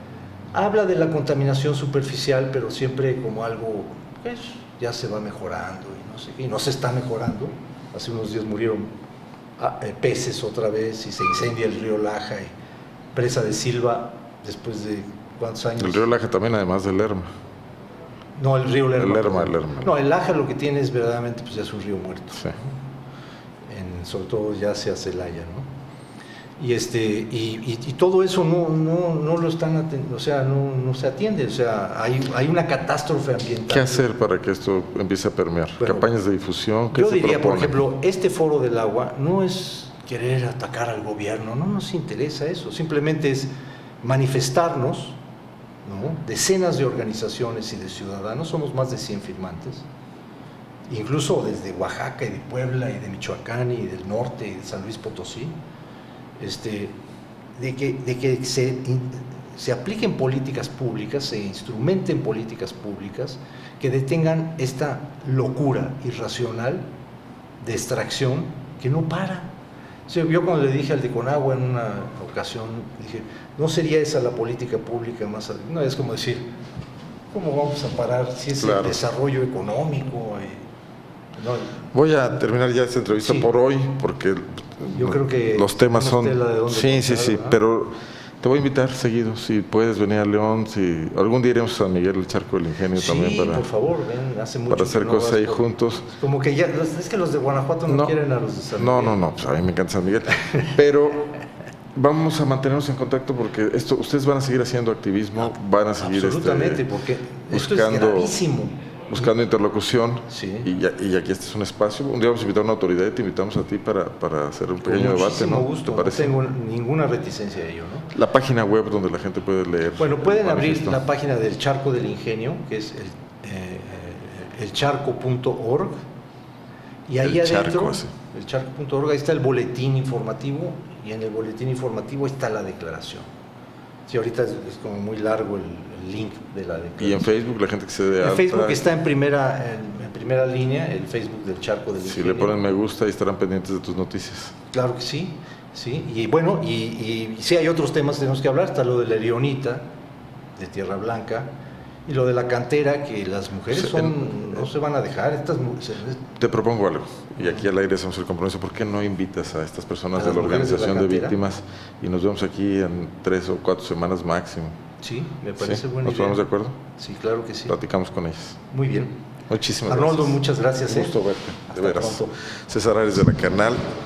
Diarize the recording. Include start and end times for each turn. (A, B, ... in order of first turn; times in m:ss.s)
0:00.5-0:08.9 A
0:09.6-0:12.5 A
0:13.1-0:16.1 A
0:15.8-0:17.3 B
0:18.4-0:22.8 A
0:19.0-0:19.9 B
0:23.7-0:25.7 A
0:26.6-0:34.0 A
0:33.7-0:37.8 B
0:35.8-0:36.1 A
0:36.9-0:43.5 A
0:44.0-0:45.2 A
0:45.8-0:49.8 A
0:50.9-0:55.6 A
0:56.4-0:56.9 A
0:57.6-1:06.8 A
1:07.6-1:09.5 A
1:10.1-1:16.5 A
1:17.3-1:20.6 A
1:18.6-1:19.0 B
1:21.4-1:21.8 A
1:21.9-1:33.7 B
1:23.2-1:23.5 A
1:24.9-1:27.6 A
1:32.9-1:39.2 A
1:34.7-1:36.1 B
1:38.8-1:41.3 B
1:41.9-1:46.8 B
1:46.0-1:48.8 A
1:47.5-1:48.3 B
1:49.1-1:56.3 B
1:50.3-1:50.7 A
1:54.8-1:58.1 A
1:58.1-2:01.0 B
2:00.0-2:06.0 A
2:07.1-2:13.3 A
2:07.2-2:08.1 B
2:14.1-2:17.3 A
2:17.0-2:18.8 B
2:18.2-2:22.6 A
2:22.0-2:24.6 B
2:24.7-2:29.9 A
2:30.6-2:31.5 A
2:32.0-2:36.3 A
2:33.7-2:34.6 B
2:36.4-2:44.7 B
2:40.1-2:41.4 A
2:45.0-2:46.4 A
2:45.6-2:46.8 B
2:47.0-2:47.8 A
2:47.7-2:48.6 B
2:48.7-2:49.1 A
2:49.5-2:53.8 B
2:49.8-2:52.3 A